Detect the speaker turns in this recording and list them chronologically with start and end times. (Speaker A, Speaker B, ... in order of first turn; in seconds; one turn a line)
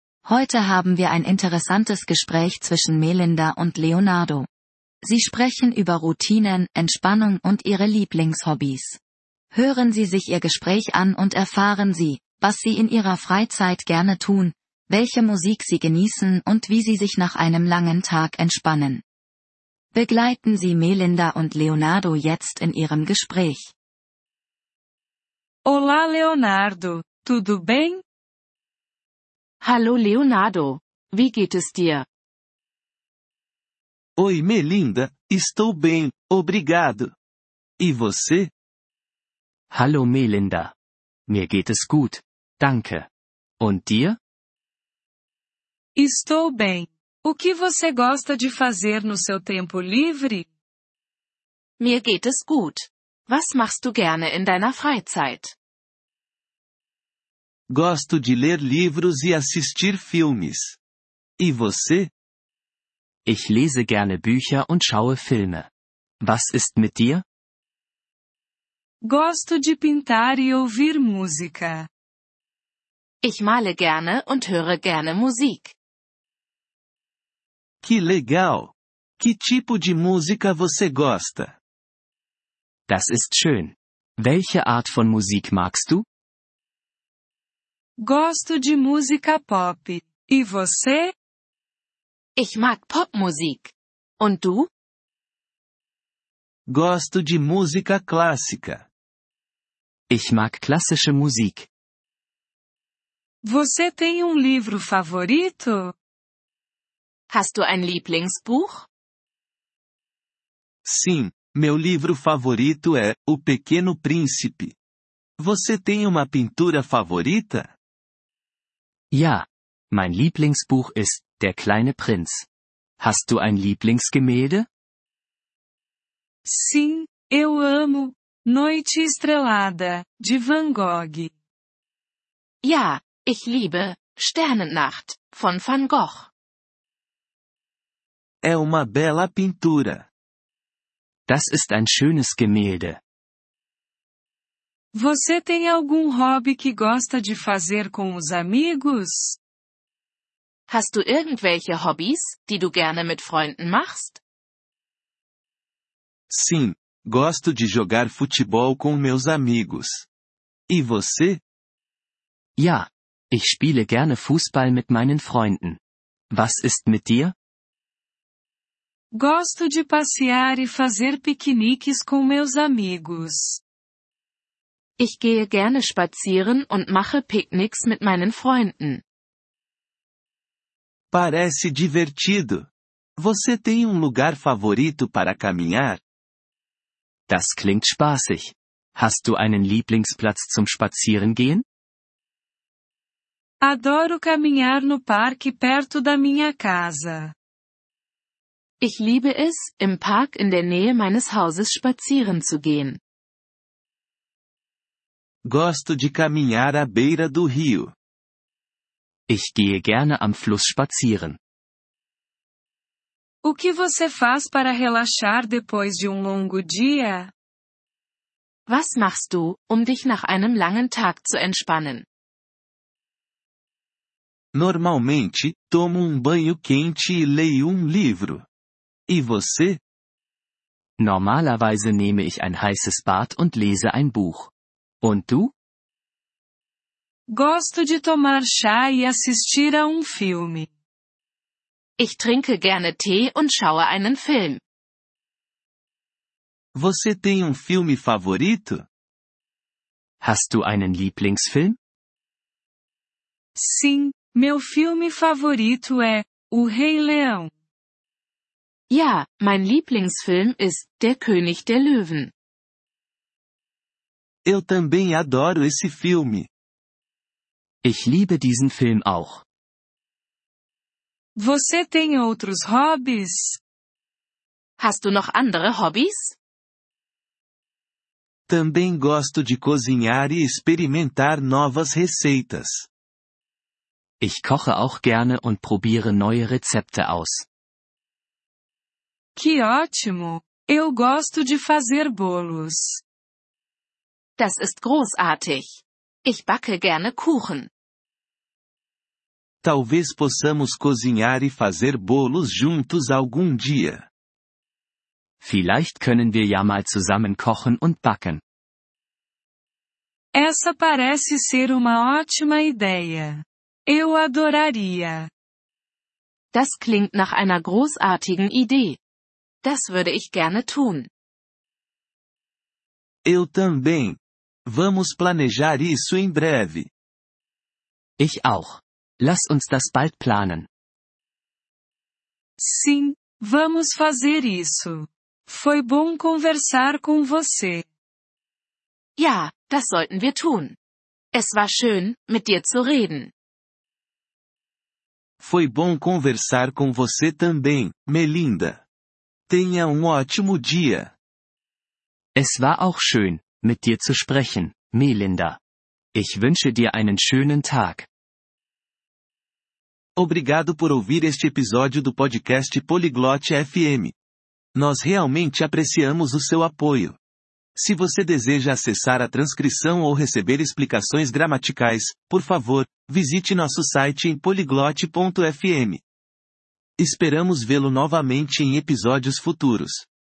Speaker A: 0.2-4.5
Speaker A: 5.0-9.0
Speaker A: 9.5-19.0
Speaker A: 19.9-23.7
Speaker B: 25.6-28.0
Speaker C: 29.6-32.1
Speaker D: 34.2-37.1
Speaker D: 37.8-38.5
Speaker E: 39.7-40.7
Speaker E: 41.3-43.1
Speaker E: 43.6-44.2
Speaker B: 46.0-50.5
Speaker C: 51.8-55.5
Speaker D: 57.7-60.8
Speaker D: 61.4-62.1
Speaker E: 63.3-65.7
Speaker E: 66.2-67.2
Speaker B: 69.0-71.9
Speaker C: 73.2-75.8
Speaker D: 77.8-81.6
Speaker E: 82.9-86.1
Speaker B: 88.0-91.1
Speaker C: 92.4-94.7
Speaker D: 96.7-98.9
Speaker E: 100.1-101.7
Speaker B: 103.4-105.9
Speaker C: 107.3-108.9
Speaker D: 110.8-114.8
Speaker D: 115.4-117.7
Speaker E: 119.1-122.5
Speaker E: 123.0-124.7
Speaker B: 126.5-131.3
Speaker C: 132.6-136.3
Speaker D: 138.4-140.1
Speaker E: 141.3-143.0
Speaker B: 144.9-149.4
Speaker C: 150.7-154.2
Speaker D: 156.3-160.1
Speaker D: 160.7-161.4
Speaker E: 162.6-165.8
Speaker E: 166.3-167.3
Speaker B: 169.1-173.6
Speaker C: 175.0-179.0
Speaker D: 181.1-186.0
Speaker E: 187.3-191.7
Speaker B: 193.6-197.3
Speaker C: 198.8-203.0
Speaker D: 205.4-207.9
Speaker E: 209.3-211.4
Speaker B: 213.4-217.3
Speaker C: 218.7-222.1
Speaker D: 224.5-228.5
Speaker D: 229.1-229.8
Speaker E: 231.0-235.5
Speaker B: 237.3-240.7
Speaker C: 242.0-244.6
Speaker D: 246.8-248.9
Speaker E: 250.2-251.8
Speaker B: 253.6-257.5
Speaker C: 258.9-262.3
Speaker D: 264.4-266.5
Speaker E: 267.8-269.4
Speaker B: 271.4-273.6
Speaker C: 274.8-276.4
Speaker D: 278.5-282.9
Speaker E: 284.2-287.5
Speaker B: 289.4-293.0
Speaker C: 294.4-297.7
Speaker D: 299.6-304.1
Speaker E: 305.4-308.4
Speaker B: 310.3-315.3
Speaker C: 316.5-319.0
Speaker C: 319.6-321.1
Speaker D: 323.2-326.9
Speaker E: 328.2-330.7
Speaker B: 332.6-337.9
Speaker C: 339.2-340.8
Speaker C: 341.3-343.3
Speaker D: 345.4-348.8
Speaker D: 349.5-351.1
Speaker E: 352.4-355.6
Speaker E: 356.1-358.1
Speaker D: 360.2-364.1
Speaker D: 364.8-367.2
Speaker D: 367.8-376.0
Speaker D: 377.0-380.1